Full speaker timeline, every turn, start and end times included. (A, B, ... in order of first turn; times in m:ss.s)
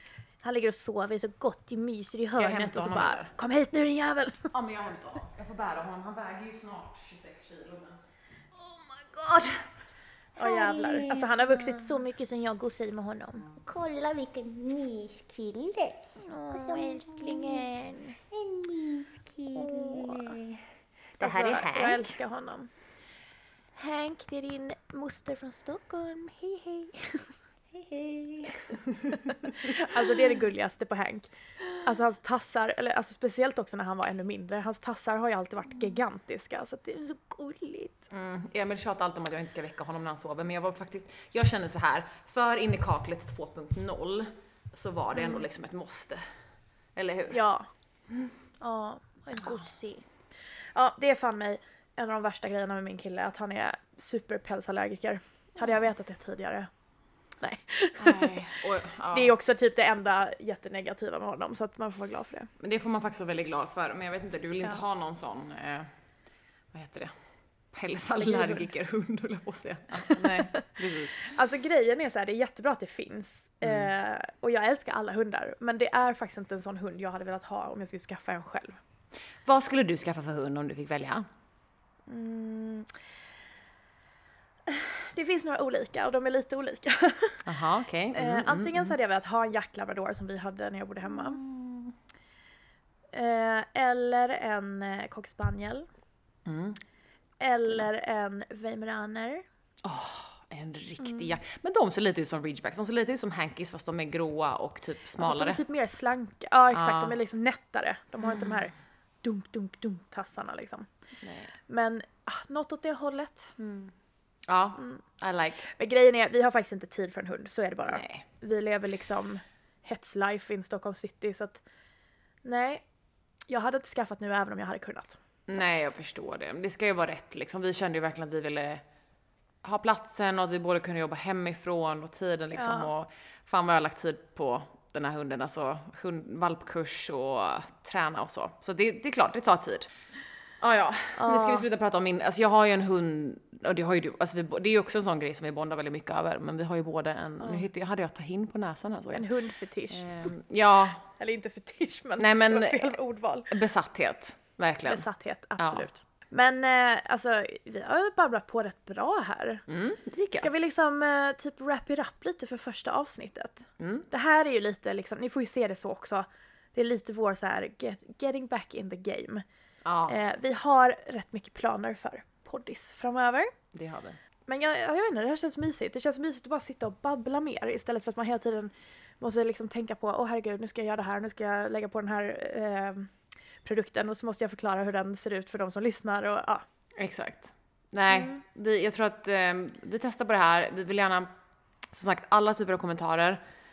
0:00.4-0:04.5 A
0:02.3-0:03.3 B
0:04.5-0:08.0 B
0:08.5-0:09.7 B
0:10.4-0:13.5 A
0:10.4-0:11.7 B
0:13.6-0:14.0 B
0:13.7-0:16.0 C
0:15.4-0:15.9 B
0:16.2-0:18.2 A
0:16.7-0:17.4 C
0:18.3-0:19.1 C
0:18.5-0:18.7 B
0:19.2-0:20.6 B
0:19.6-0:20.2 C
0:21.2-0:22.7 A
0:21.2-0:22.1 B
0:23.8-0:27.3 A
0:28.9-0:30.0 B
0:29.1-0:38.1 A
0:38.1-0:46.2 B
0:45.2-0:45.4 A
0:47.0-0:47.4 B
0:47.3-0:47.7 A
0:48.6-0:50.1 A
0:50.6-0:56.7 A
0:57.4-0:58.5 A
0:58.0-0:59.3 B
0:59.1-1:02.5 A
1:02.6-1:05.9 B
1:06.7-1:07.1 B
1:07.7-1:11.3 B
1:08.2-1:08.7 A
1:10.1-1:10.6 A
1:11.2-1:18.8 A
1:13.6-1:13.9 B
1:19.4-1:21.2 B
1:22.1-1:22.9 A
1:24.7-1:27.5 A
1:27.5-1:29.0 B
1:28.1-1:31.4 A
1:31.1-1:32.0 B
1:33.1-1:35.9 A
1:36.4-1:36.8 B
1:37.4-1:39.4 A
1:39.8-1:45.6 B
1:41.0-1:41.3 A
1:45.2-1:50.9 A
1:46.7-1:47.2 B
1:51.2-1:51.5 B
1:51.7-1:53.6 A
1:53.6-1:53.9 B
1:54.5-1:55.7 B
1:55.7-2:01.6 A
1:57.9-1:58.2 B
2:02.4-2:02.8 A
2:03.5-2:05.9 A
2:05.5-2:08.8 B
2:09.6-2:19.9 B
2:12.5-2:12.9 A
2:20.6-2:29.3 B
2:21.2-2:21.6 A
2:29.1-2:30.3 A
2:29.9-2:31.0 B
2:31.2-2:33.6 A
2:32.2-2:33.0 B
2:33.5-2:35.0 B
2:34.9-2:39.6 A
2:35.6-2:35.9 B
2:39.7-2:40.5 B
2:40.4-2:49.4 A
2:43.8-2:44.1 B
2:49.8-2:50.2 B
2:50.1-2:53.5 A
2:53.7-2:54.2 B
2:54.5-3:06.6 A
3:07.0-3:11.3 B
3:08.1-3:08.4 A
3:11.9-3:13.4 B